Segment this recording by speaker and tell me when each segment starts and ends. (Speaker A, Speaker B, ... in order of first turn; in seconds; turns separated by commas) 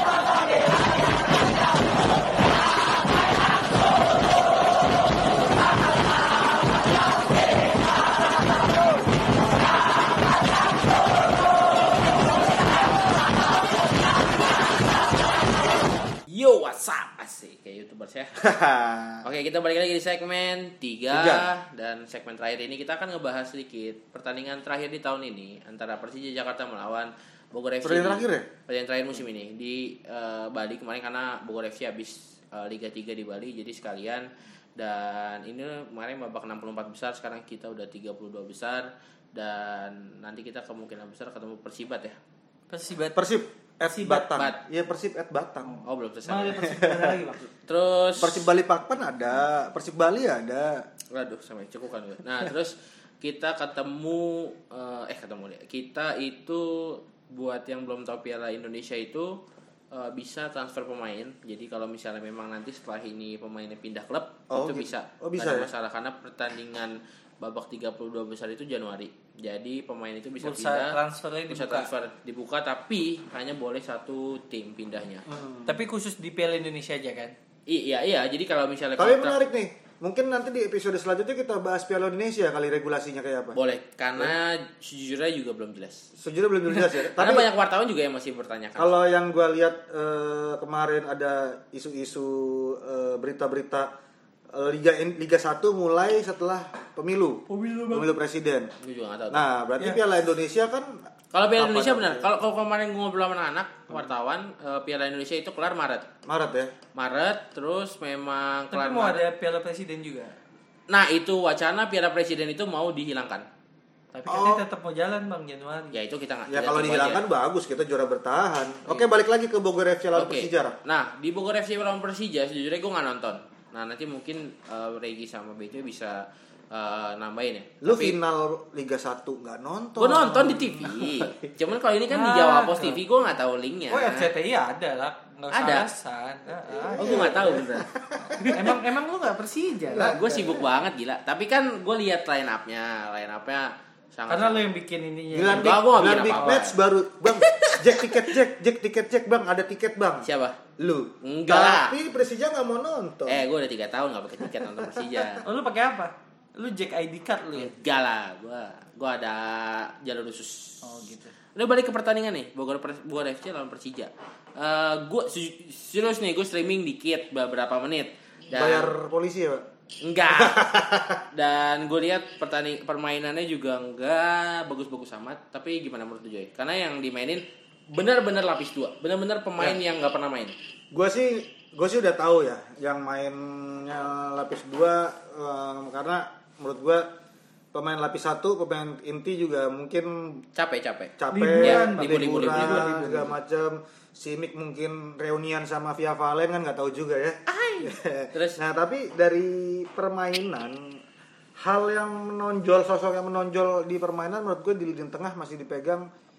Speaker A: 16.3-18.4, Speaker B: 18.4-19.3, Speaker A: 19.2-42.2, Speaker B: 21.1-21.5, Speaker B: 27.8-28.5, Speaker C: 42.7-43.2, Speaker B: 43.1-45.8, Speaker C: 43.8-44.3, Speaker A: 44.3-44.6, Speaker A: 45.8-46.8, Speaker C: 46.3-47.5, Speaker B: 46.6-47.2, Speaker A: 47.7-48.5, Speaker B: 48.2-50.9, Speaker A: 51.1-59.4, Speaker A: 59.9-71.0, Speaker B: 64.5-65.7, Speaker C: 70.4-71.9, Speaker A: 71.5-75.2, Speaker B: 75.3-75.8, Speaker C: 75.7-77.3, Speaker A: 77.7-79.4, Speaker B: 79.0-83.6, Speaker A: 83.5-86.1, Speaker B: 86.2-87.5, Speaker A: 86.7-88.9, Speaker B: 88.8-93.9, Speaker B: 94.5-98.7, Speaker C: 97.5-98.1, Speaker A: 98.8-99.5, Speaker B: 99.3-101.0, Speaker A: 101.3-106.1, Speaker B: 101.5-102.3, Speaker B: 106.3-106.7, Speaker A: 107.0-109.2, Speaker C: 108.7-110.4, Speaker A: 110.9-113.5, Speaker C: 114.1-116.0, Speaker B: 114.3-114.6, Speaker A: 115.9-117.2, Speaker B: 116.5-120.8, Speaker A: 120.2-128.2, Speaker B: 127.8-131.3, Speaker A: 130.0-134.3, Speaker C: 132.1-133.0, Speaker C: 133.9-137.6, Speaker A: 135.5-135.9, Speaker B: 136.7-138.8, Speaker A: 137.0-137.9, Speaker C: 138.3-140.2, Speaker B: 139.9-140.7, Speaker A: 140.0-144.7, Speaker C: 144.3-146.7, Speaker B: 145.3-150.3, Speaker A: 145.5-146.8, Speaker A: 150.2-150.6, Speaker B: 150.8-153.4, Speaker A: 151.2-152.0, Speaker A: 153.3-155.4, Speaker B: 154.8-155.2, Speaker C: 155.4-157.8, Speaker A: 157.6-160.9, Speaker C: 160.8-161.3, Speaker A: 161.6-168.9, Speaker B: 168.5-169.7, Speaker A: 170.0-180.6, Speaker B: 170.3-171.2, Speaker B: 180.9-187.1, Speaker B: 187.7-190.4, Speaker A: 190.6-193.0, Speaker B: 191.2-201.0, Speaker C: 191.3-193.4, Speaker A: 197.5-198.6, Speaker B: 201.6-206.1